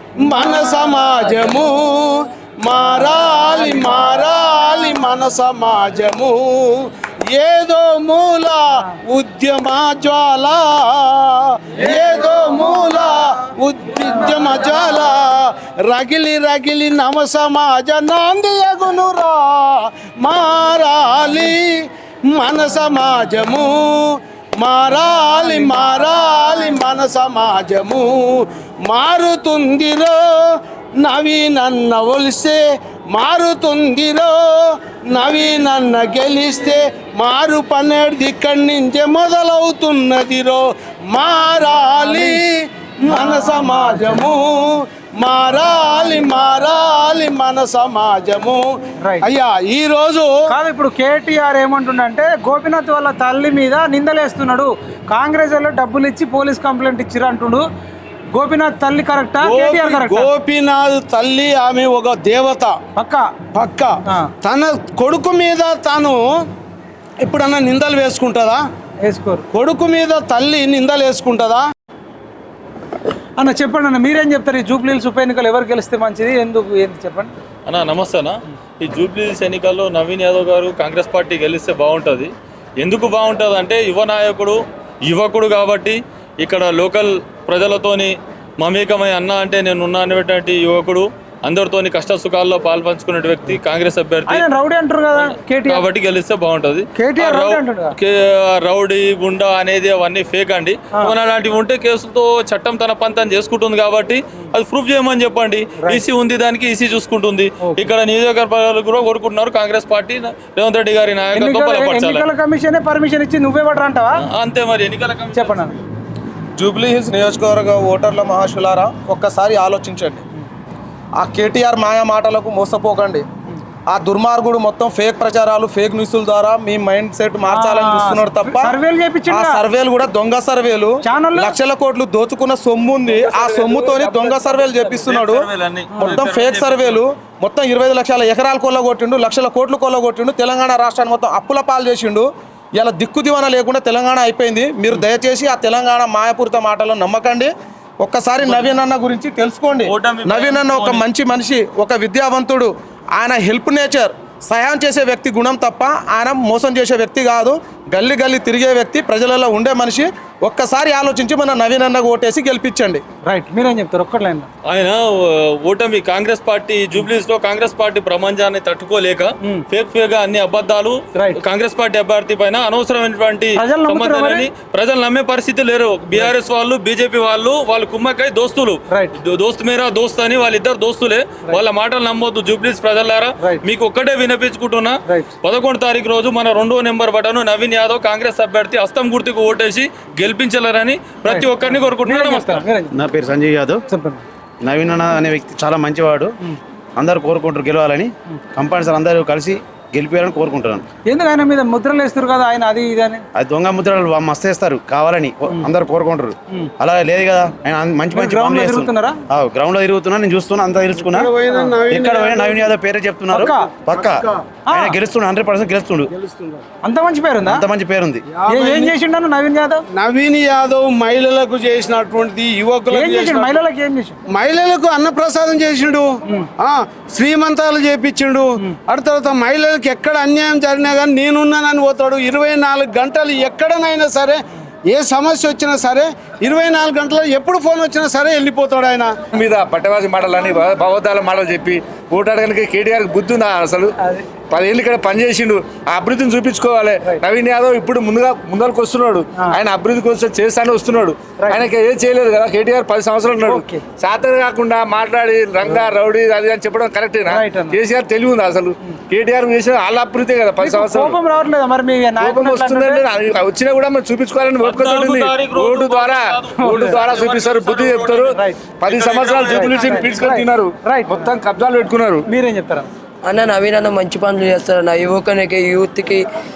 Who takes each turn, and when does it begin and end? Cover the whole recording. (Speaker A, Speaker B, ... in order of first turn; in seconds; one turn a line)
Speaker A: 0.2-48.6
Speaker B: 42.0-42.4
Speaker B: 43.1-44.0
Speaker A: 49.2-50.3
Speaker B: 50.5-57.6
Speaker B: 58.3-60.3
Speaker A: 59.4-62.8
Speaker B: 63.0-63.3
Speaker A: 63.5-66.2
Speaker A: 67.2-68.6
Speaker B: 69.0-69.4
Speaker A: 69.5-71.6
Speaker B: 73.4-77.3
Speaker C: 77.7-94.5
Speaker B: 94.3-95.8
Speaker C: 95.6-112.2
Speaker B: 96.9-97.9
Speaker B: 107.6-107.9
Speaker B: 111.3-114.2
Speaker C: 114.2-115.7
Speaker B: 115.3-115.8
Speaker D: 116.6-120.2
Speaker D: 121.2-123.2
Speaker D: 123.9-128.7
Speaker B: 127.5-129.6
Speaker D: 129.3-135.5
Speaker B: 131.0-131.5
Speaker C: 133.4-134.1
Speaker C: 134.8-137.0
Speaker B: 135.9-136.2
Speaker D: 136.0-147.5
Speaker D: 148.0-163.0
Speaker C: 149.9-151.0
Speaker B: 163.2-164.5
Speaker C: 164.7-192.6
Speaker B: 171.1-171.4
Speaker B: 173.6-174.5
Speaker B: 185.1-185.3
Speaker B: 191.2-192.9
Speaker E: 192.9-193.8
Speaker B: 193.9-194.2
Speaker E: 194.6-196.3
Speaker E: 197.0-200.8
Speaker B: 201.1-203.2
Speaker E: 203.3-211.3
Speaker B: 208.1-209.2
Speaker A: 211.1-212.7
Speaker E: 211.9-216.1
Speaker B: 213.3-213.7
Speaker A: 213.9-214.3
Speaker B: 214.7-214.9
Speaker A: 216.2-216.6
Speaker B: 216.8-217.6
Speaker E: 217.4-218.2
Speaker A: 218.3-218.9
Speaker B: 218.5-219.8
Speaker A: 219.9-223.6
Speaker B: 222.9-224.2
Speaker A: 224.3-226.1
Speaker A: 226.6-239.1
Speaker F: 239.3-243.9
Speaker B: 244.0-244.2
Speaker F: 244.5-261.1
Speaker B: 251.4-251.7
Speaker B: 253.4-253.8
Speaker B: 257.3-257.8
Speaker B: 260.6-263.0
Speaker F: 262.2-268.3
Speaker C: 264.6-268.3
Speaker B: 266.6-267.1
Speaker B: 268.3-268.6
Speaker F: 268.8-272.2
Speaker C: 268.8-270.2
Speaker B: 269.4-271.2
Speaker B: 272.3-272.9
Speaker G: 273.2-276.2